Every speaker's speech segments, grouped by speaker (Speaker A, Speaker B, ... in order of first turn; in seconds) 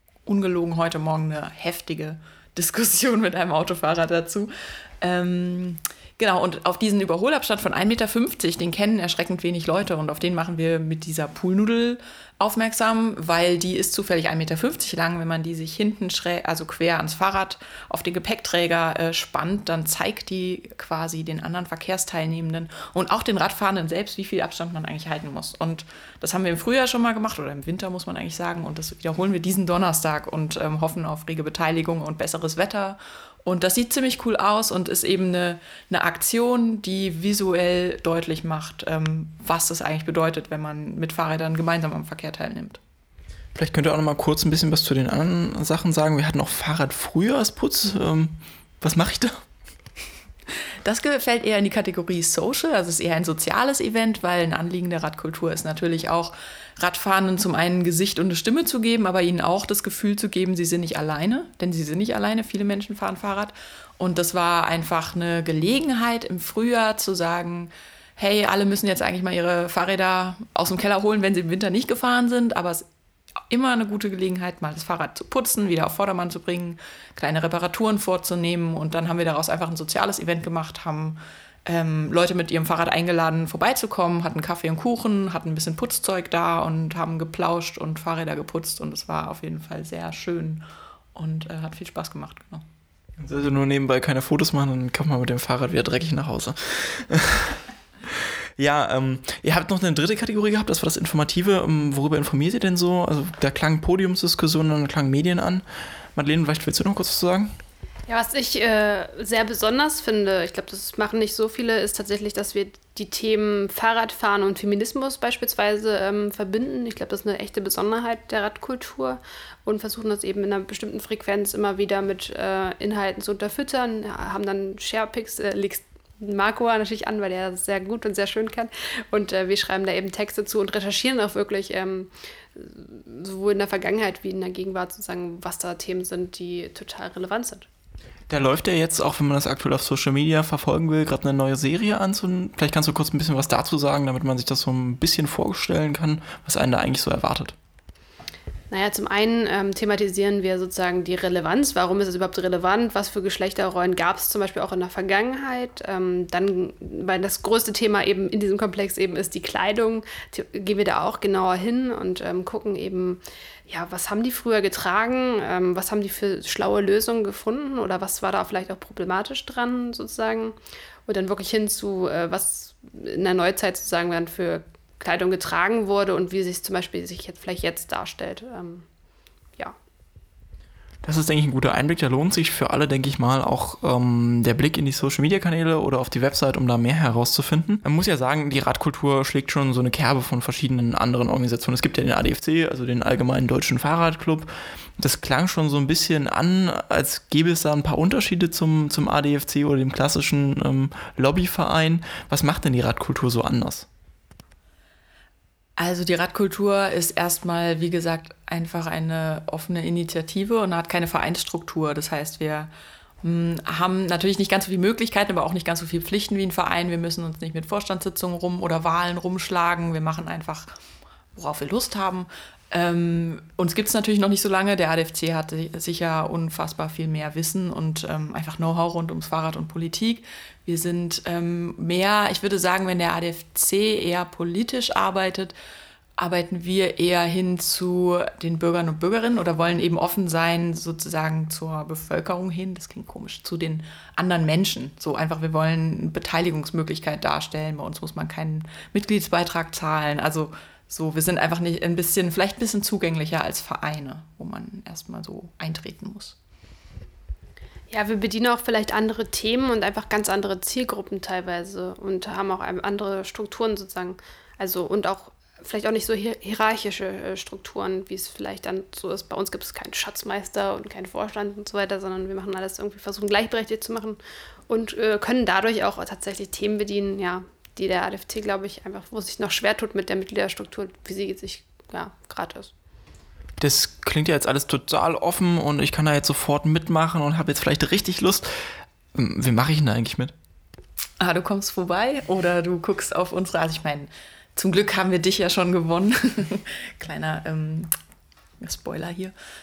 Speaker A: 0.2-42.8, 50.8-72.9, 73.5-90.6, 91.1-92.6, 205.8-212.7, 213.2-220.7, 221.3-235.5, 236.2-256.4, 291.2-297.9, 298.6-299.3
Speaker B: 43.5-49.4, 93.2-105.6, 106.2-107.5, 138.3-147.5, 181.0-203.9, 283.6-288.5, 289.1-290.3
Speaker C: 108.1-137.7, 148.7-178.8, 257.9-282.7